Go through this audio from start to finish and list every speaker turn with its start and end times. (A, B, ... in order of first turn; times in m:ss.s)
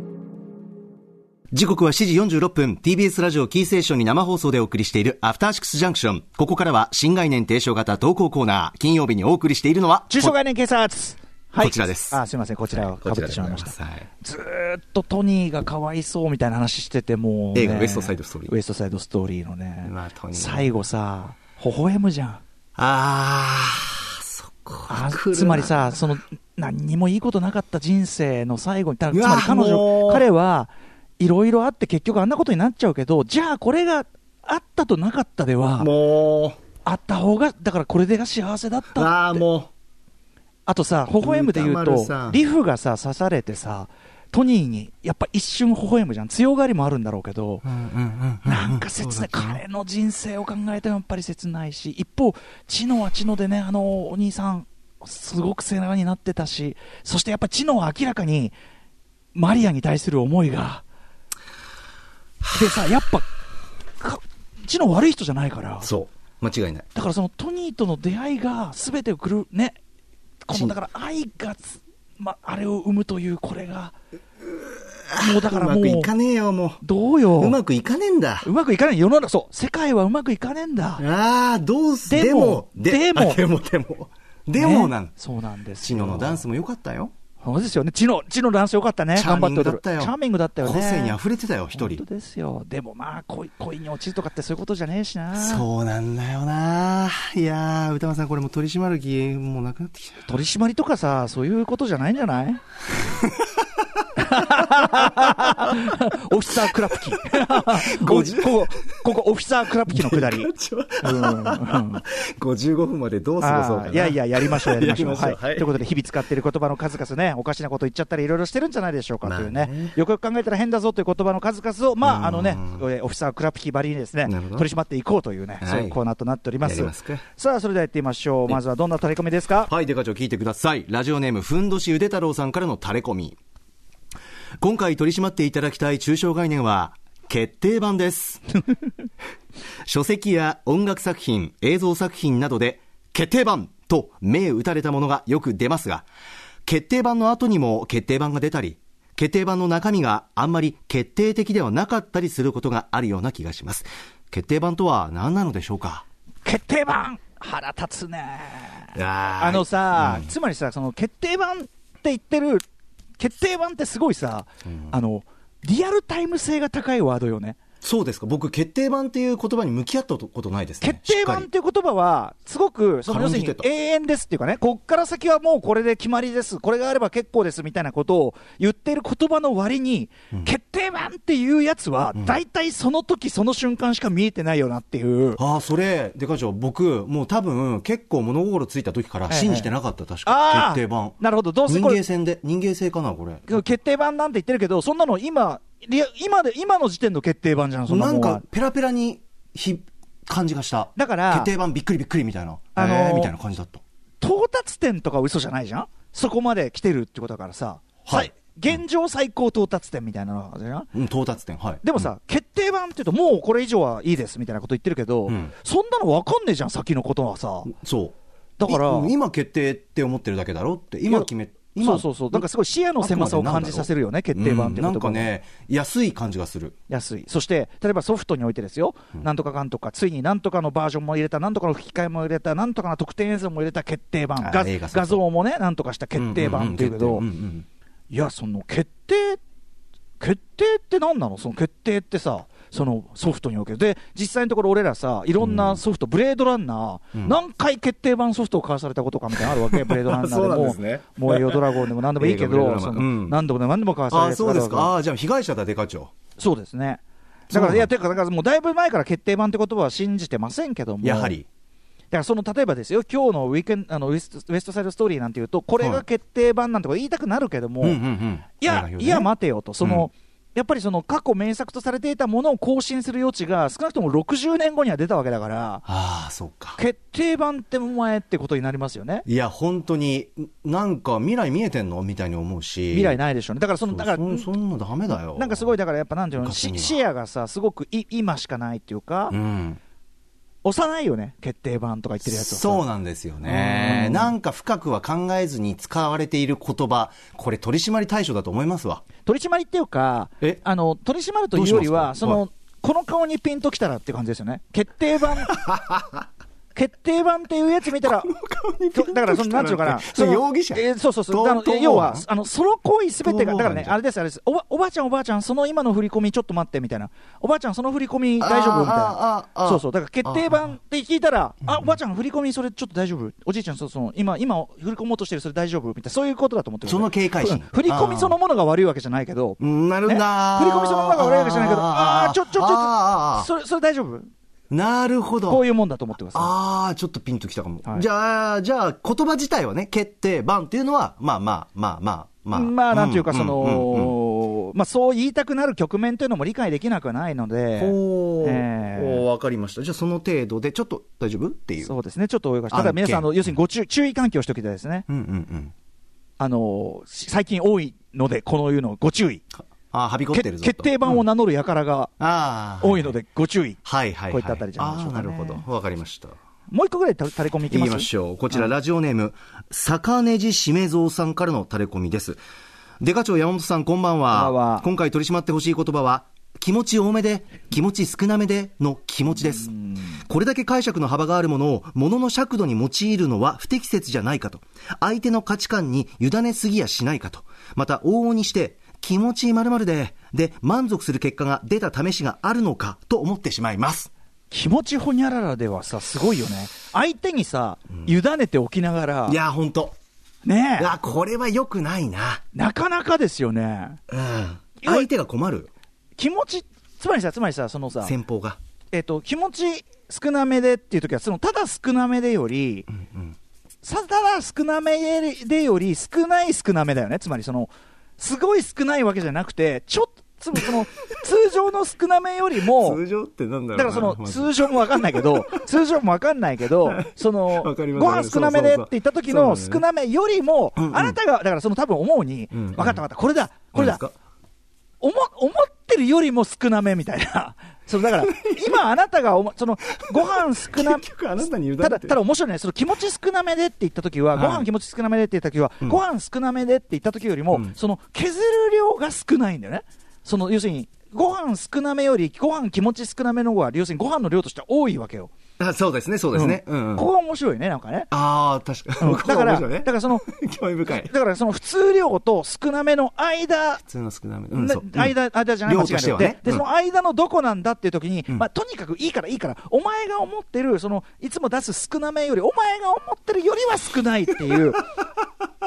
0:01.5-0:10.3 A
0:10.1-0:22.4 B
0:11.6-0:12.2 A
0:12.7-0:14.0 A
0:17.5-0:18.5 A
0:19.8-0:20.7 A
0:22.8-0:26.1 A
0:24.9-0:35.9 B
0:29.1-0:30.3 A
0:35.8-0:36.6 A
0:36.8-0:39.4 B
0:38.9-0:39.7 A
0:40.7-0:47.7 B
0:41.2-0:42.4 A
0:47.6-0:49.6 A
0:48.4-0:58.5 B
0:59.3-1:00.8 B
1:02.5-1:03.3 B
1:04.0-1:05.9 B
1:05.8-1:06.8 A
1:06.9-1:09.8 B
1:10.4-1:13.9 B
1:10.5-1:10.8 A
1:15.1-1:16.8 A
1:15.2-1:16.1 B
1:16.8-1:17.6 B
1:17.4-1:18.5 A
1:18.4-1:21.0 B
1:21.0-1:25.1 A
1:22.1-1:23.4 B
1:24.6-1:26.4 B
1:25.8-1:27.1 A
1:27.4-1:31.2 B
1:29.1-1:32.0 A
1:31.7-1:35.6 B
1:35.4-1:40.2 A
1:40.2-1:42.6 B
1:43.2-1:43.6 A
1:44.2-1:52.0 B
1:44.9-1:45.8 A
1:47.2-1:48.9 A
1:49.9-1:55.8 A
1:53.4-2:09.7 B
1:59.2-2:00.0 A
2:02.0-2:02.8 A
2:04.2-2:04.7 A
2:05.6-2:06.0 A
2:06.6-2:07.2 A
2:09.7-2:13.4 A
2:14.6-2:18.4 A
2:19.8-2:26.0 A
2:26.6-2:36.0 A
2:36.4-2:42.6 B
2:38.9-2:40.3 A
2:43.2-2:47.6 B
2:44.6-2:45.0 A
2:47.8-2:51.5 A
2:50.8-3:05.4 B
2:53.1-2:53.6 A
3:05.4-3:13.6 A
3:09.3-3:09.7 B
3:10.2-3:12.0 B
3:13.5-3:18.4 B
3:17.9-3:23.8 A
3:21.0-3:21.5 B
3:22.8-3:23.3 B
3:24.2-3:30.9 B
3:28.0-3:28.3 A
3:30.9-3:31.9 A
3:31.8-3:37.7 B
3:35.3-3:35.5 A
3:37.7-3:42.5 A
3:38.6-3:39.1 B
3:41.1-3:45.3 B
3:43.0-3:46.7 A
3:46.9-3:57.2 B
3:54.4-3:55.2 A
3:56.2-3:57.6 A
3:58.1-3:59.4 B
4:00.2-4:14.9 B
4:05.4-4:05.8 A
4:09.7-4:13.4 A
4:14.1-4:16.1 A
4:16.4-4:21.4 B
4:17.5-4:17.9 A
4:21.0-4:21.4 A
4:22.1-4:28.0 B
4:25.8-4:26.0 A
4:27.8-4:29.3 A
4:28.6-4:35.8 B
4:29.8-4:30.1 A
4:35.8-4:36.8 A
4:36.8-4:39.2 B
4:39.2-4:43.2 A
4:42.9-4:44.5 B
4:43.9-4:45.7 A
4:45.1-4:49.4 B
4:46.4-4:47.0 A
4:49.3-4:49.8 A
4:50.6-4:52.9 B
4:52.2-4:59.0 A
4:53.4-4:54.3 B
4:59.2-5:05.5 B
5:01.5-5:02.4 A
5:05.4-5:06.2 A
5:06.7-5:08.3 B
5:08.0-5:12.2 A
5:08.9-5:34.3 B
5:13.2-5:14.0 A
5:18.4-5:20.6 A
5:26.8-5:28.3 A
5:29.6-5:33.5 A
5:34.7-5:35.6 A
5:35.5-5:36.5 B
5:36.3-5:44.2 A
5:42.5-5:49.2 B
5:47.8-5:51.9 A
5:51.8-5:55.0 B
5:52.7-5:53.5 A
5:55.1-5:55.7 A
5:56.4-5:59.4 B
5:59.9-6:01.2 A
6:00.3-6:02.1 B
6:02.2-6:03.2 A
6:02.8-6:05.6 B
6:03.8-6:06.4 A
6:06.7-6:08.7 B
6:07.7-6:12.4 A
6:13.0-6:19.7 A
6:14.3-6:14.8 B
6:19.4-6:20.2 B
6:20.2-6:34.1 A
6:34.5-6:39.4 B
6:39.3-6:40.0 A
6:40.4-6:40.9 B
6:40.8-6:42.4 A
6:42.5-6:44.0 B
6:44.1-6:45.7 A
6:44.8-6:45.1 B
6:46.2-6:48.1 B
6:48.0-6:48.6 A
6:48.9-6:52.9 B
6:52.9-6:53.4 A
6:53.8-7:03.0 B
7:02.6-7:05.6 A
7:03.7-7:14.0 B
7:06.8-7:09.8 A
7:10.8-7:11.2 A
7:12.5-7:13.0 A
7:13.7-7:14.1 A
7:15.0-7:21.1 B
7:18.2-7:18.8 A
7:20.0-7:22.2 A
7:21.8-7:35.3 B
7:24.3-7:24.7 A
7:35.6-7:37.1 A
7:36.3-7:38.1 B
7:38.1-7:41.1 A
7:39.0-7:40.3 B
7:40.9-7:43.8 B
7:43.8-7:46.6 A
7:44.5-7:54.8 B